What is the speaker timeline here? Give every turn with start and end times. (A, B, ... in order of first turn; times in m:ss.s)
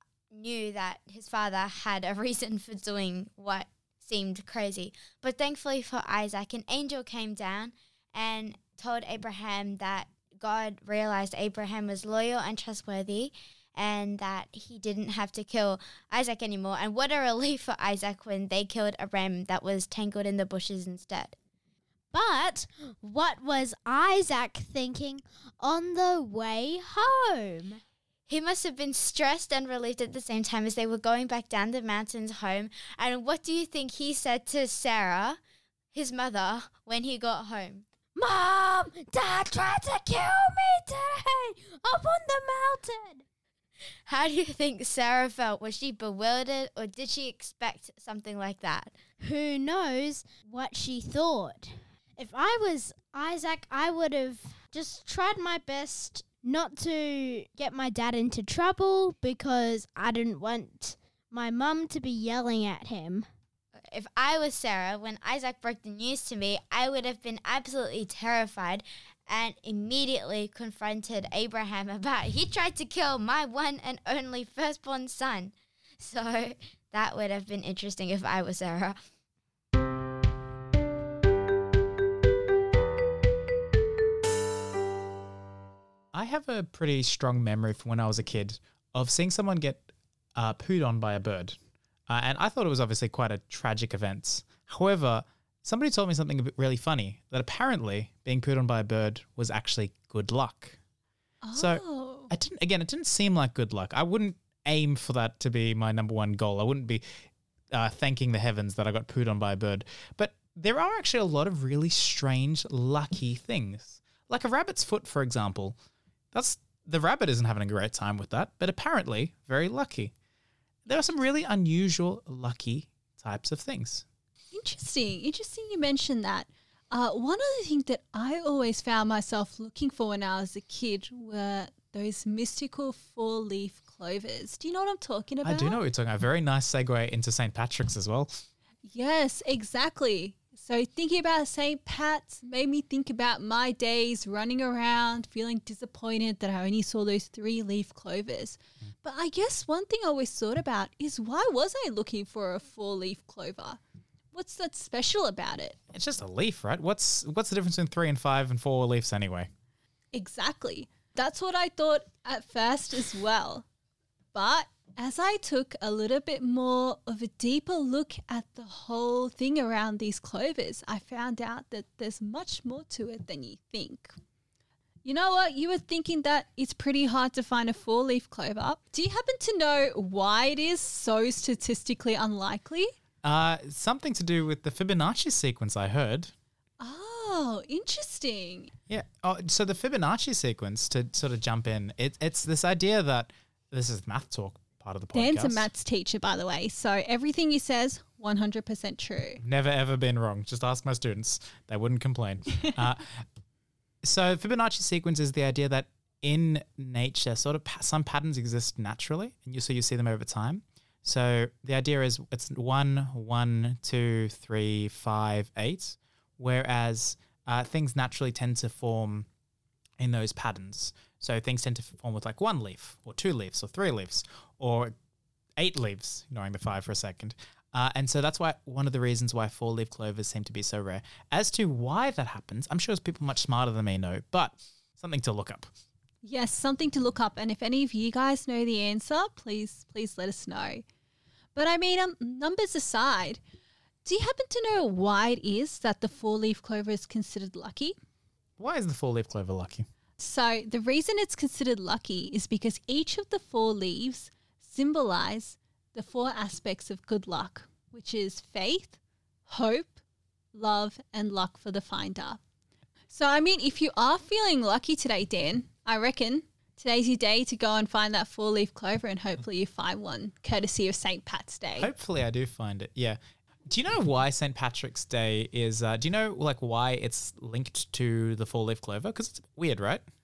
0:00.3-0:21.4 A
0:22.1-0:27.8 B
0:28.3-0:35.4 A
0:35.9-0:37.9 A
0:38.2-0:43.2 B
0:44.1-0:49.0 A
0:49.2-1:03.3 B
1:03.9-1:19.0 A
1:26.1-1:31.6 C
1:32.1-1:40.8 C
1:41.4-1:42.3 D
1:41.6-1:55.8 C
1:56.3-2:00.1 C
2:00.9-2:04.0 C
2:04.5-2:15.8 D
2:15.4-2:18.4 C
2:18.8-2:33.8 D
2:34.3-2:35.8 D
2:35.9-2:39.5 C
2:40.1-2:43.6 D
2:44.3-2:54.2 D
2:55.0-3:02.9 D
3:03.2-3:06.3 C
3:06.8-3:08.7 D
3:08.9-3:15.7 C
3:15.1-3:19.4 D
3:19.4-3:23.2 C
3:24.0-3:39.3 C
3:40.0-3:44.9 C
3:45.6-3:55.7 C
3:56.2-4:00.8 D
4:01.5-4:03.4 D
4:04.0-4:08.0 D
4:08.6-4:09.9 C
4:10.2-4:20.0 D
4:20.5-4:22.4 D
4:23.1-4:31.9 D
4:31.8-4:40.0 C